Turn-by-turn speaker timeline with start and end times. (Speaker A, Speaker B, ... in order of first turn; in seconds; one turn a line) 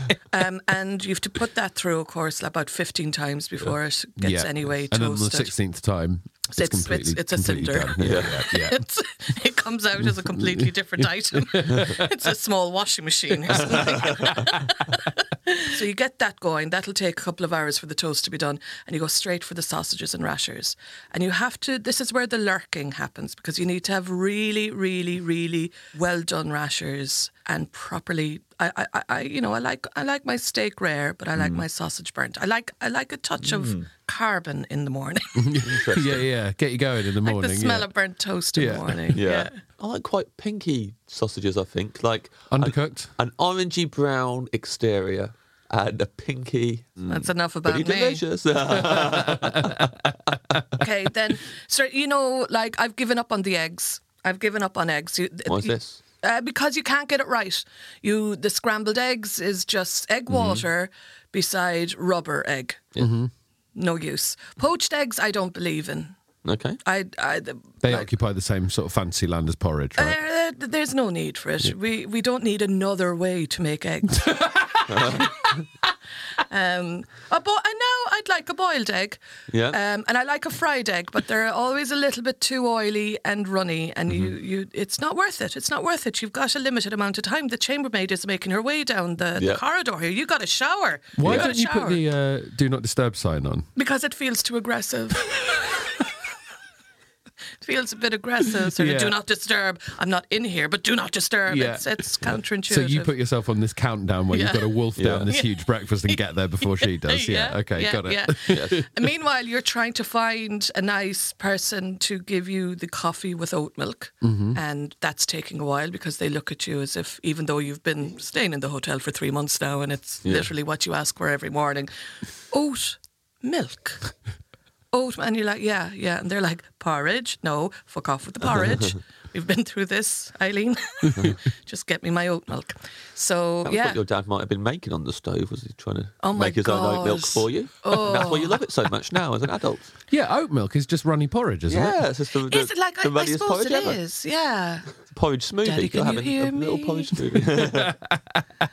Speaker A: 0.3-5.5
Speaker B: 4.2-8.8
Speaker A: 6.5-35.6
Speaker C: 8.0-8.3
Speaker B: 11.3-12.1
Speaker B: 13.5-14.5
Speaker C: 13.9-14.3
Speaker C: 31.4-31.6
Speaker C: 33.4-33.9
Speaker B: 35.4-37.9
Speaker C: 35.6-36.3
Speaker A: 37.2-39.6
Speaker B: 38.5-39.1
Speaker C: 39.1-50.4
Speaker B: 42.5-43.1
Speaker A: 47.1-48.2
Speaker B: 49.0-49.9
Speaker A: 50.8-62.8
Speaker C: 55.5-56.0
Speaker C: 60.3-60.6
Speaker B: 63.0-63.3
Speaker A: 63.8-66.1
Speaker C: 66.4-66.8
Speaker A: 66.8-68.1
Speaker B: 67.8-70.2
Speaker A: 70.0-74.5
Speaker B: 74.4-74.8
Speaker C: 74.9-75.3
Speaker A: 76.4-92.0
Speaker C: 79.5-79.8
Speaker C: 89.4-89.6
Speaker B: 91.2-93.7
Speaker C: 91.2-91.5
Speaker A: 93.8-95.6
Speaker A: 97.6-103.1
Speaker B: 98.7-99.2
Speaker B: 101.5-101.9
Speaker B: 102.7-108.8
Speaker A: 104.3-104.8
Speaker C: 105.0-105.3
Speaker A: 105.3-121.9
Speaker C: 108.5-108.8
Speaker B: 114.2-114.6
Speaker C: 120.2-120.5
Speaker A: 122.5-124.0
Speaker A: 124.9-134.0
Speaker C: 133.6-139.9
Speaker A: 136.2-138.6
Speaker B: 140.1-142.0
Speaker C: 141.7-144.0
Speaker A: 142.5-144.9
Speaker C: 145.1-147.9
Speaker A: 145.6-147.2
Speaker B: 147.4-148.4